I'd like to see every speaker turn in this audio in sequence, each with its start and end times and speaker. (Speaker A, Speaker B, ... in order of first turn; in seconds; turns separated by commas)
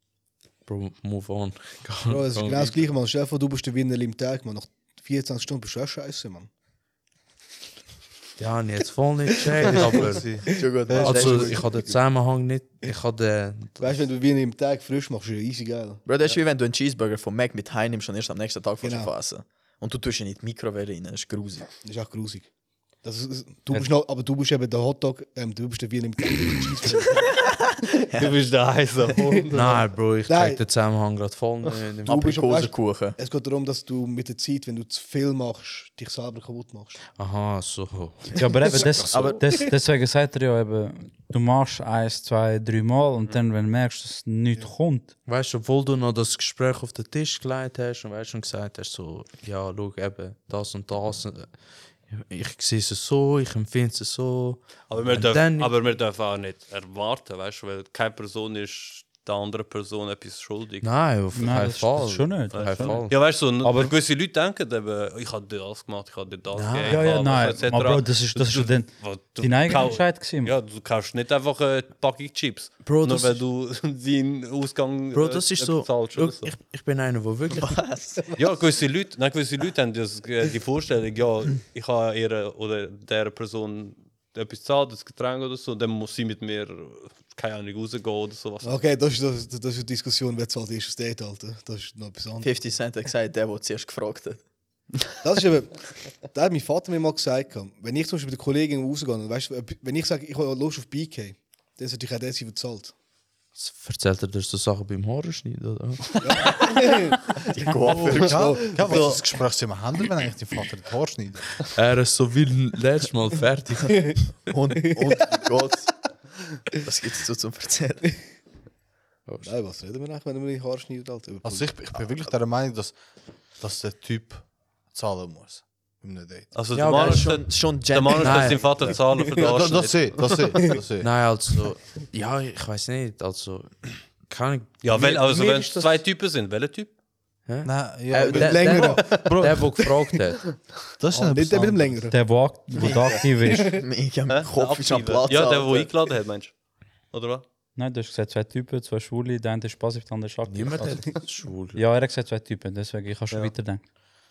Speaker A: 0.7-2.8, Speaker B: 2.1-6.5, Speaker A: 8.4-10.4, Speaker B: 9.7-10.1, Speaker C: 9.9-11.6, Speaker D: 10.5-11.6, Speaker B: 10.6-11.6, Speaker A: 11.0-14.1, Speaker B: 13.8-16.0, Speaker D: 16.1-21.7, Speaker B: 18.8-19.1, Speaker B: 21.8-22.5, Speaker B: 23.0-27.3, Speaker D: 27.3-28.4, Speaker E: 28.2-29.7, Speaker B: 29.4-30.6, Speaker A: 29.5-32.3, Speaker B: 32.1-37.0, Speaker D: 32.1-33.2, Speaker A: 37.2-39.4, Speaker F: 38.4-45.1, Speaker D: 39.0-39.5, Speaker A: 45.3-51.5, Speaker A: 52.1-55.8, Speaker E: 54.9-60.9, Speaker A: 60.8-63.2, Speaker F: 61.3-64.0, Speaker E: 62.5-76.5, Speaker A: 66.5-67.1, Speaker F: 66.9-70.5, Speaker A: 72.8-73.4, Speaker A: 75.1-77.8, Speaker D: 77.5-78.3, Speaker E: 78.4-88.9, Speaker B: 88.6-92.5, Speaker D: 92.4-94.4, Speaker B: 95.2-102.9, Speaker A: 103.6-106.5, Speaker B: 106.2-107.3, Speaker D: 107.5-108.6, Speaker B: 107.9-109.2, Speaker C: 107.9-111.7, Speaker E: 108.6-109.2, Speaker A: 111.7-114.1, Speaker B: 114.1-114.3, Speaker D: 114.5-115.9, Speaker B: 115.0-115.4, Speaker D: 116.8-118.0, Speaker A: 119.3-119.5, Speaker B: 119.4-121.9, Speaker C: 121.4-123.0, Speaker C: 123.6-126.5, Speaker E: 126.5-130.8, Speaker A: 126.7-127.4, Speaker D: 126.8-128.9, Speaker A: 128.2-128.7, Speaker B: 128.9-129.2, Speaker C: 129.3-131.1, Speaker A: 131.0-136.0, Speaker E: 134.8-136.9, Speaker A: 137.5-140.4, Speaker C: 137.6-139.8, Speaker B: 138.3-139.9, Speaker C: 141.0-142.1, Speaker B: 141.1-142.2, Speaker F: 142.1-143.8, Speaker D: 142.8-145.9, Speaker E: 144.3-146.6, Speaker E: 147.1-147.4, Speaker F: 147.8-151.2, Speaker A: 150.5-151.9, Speaker F: 151.7-153.8